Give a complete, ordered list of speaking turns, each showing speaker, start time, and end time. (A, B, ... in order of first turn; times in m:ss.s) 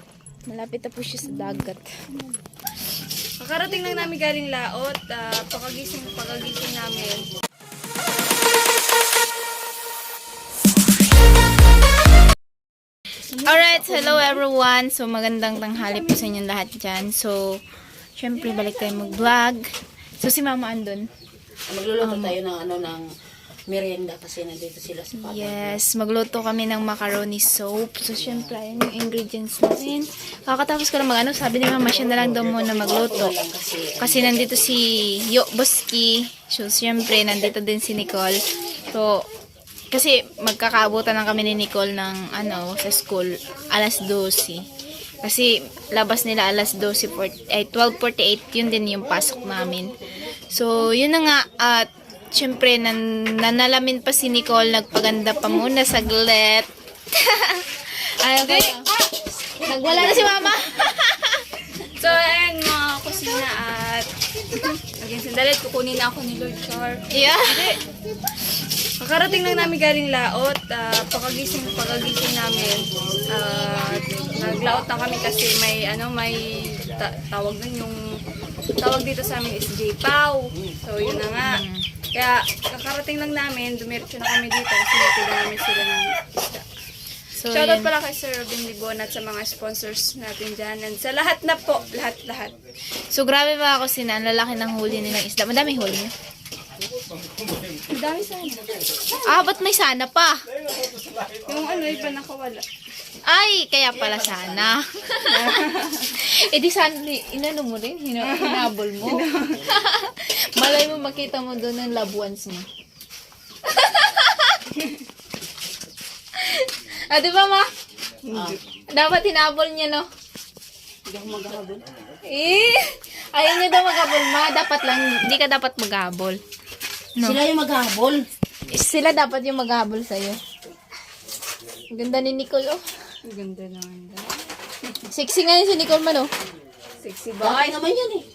0:00.5-0:01.9 A
0:03.4-0:07.3 B
0:13.3-0:14.4 B
0:13.4-0:17.6 A
0:15.9-0:16.2 B
0:18.2-0:19.6 A
0:20.2-0:21.0 A
0:21.7-0:23.0 C
0:22.0-0:22.4 A
0:23.7-0:25.8 C
0:25.1-0:33.3 A
0:28.2-0:28.6 C
0:32.6-0:34.7 C
0:34.0-0:39.2 A
0:39.9-0:44.6 A
0:45.2-0:49.9 A
0:50.5-0:58.8 A
0:58.4-0:58.9 B
0:59.6-1:01.4 A
1:01.9-1:07.8 B
1:07.1-1:07.8 A
1:09.0-1:18.0 B
1:18.8-1:26.6 B
1:21.4-1:21.9 A
1:27.3-1:27.9 A
1:27.5-1:32.5 B
1:33.1-1:36.1 A
1:37.9-1:38.7 B
1:39.2-1:40.4 A
1:41.4-1:42.6 B
1:43.2-1:45.4 A
1:45.2-1:46.1 B
1:46.1-1:52.6 A
1:48.3-1:49.6 B
1:53.6-1:54.6 A
1:56.3-1:57.7 A
1:58.3-1:58.6 B
1:58.3-1:58.6 C
1:58.9-2:00.0 A
2:01.0-2:01.9 C
2:02.2-2:06.4 A
2:07.2-2:08.2 C
2:08.7-2:10.4 A
2:11.9-2:12.8 A
2:13.2-2:14.4 B
2:15.1-2:16.3 A
2:17.0-2:17.7 B
2:17.4-2:18.3 C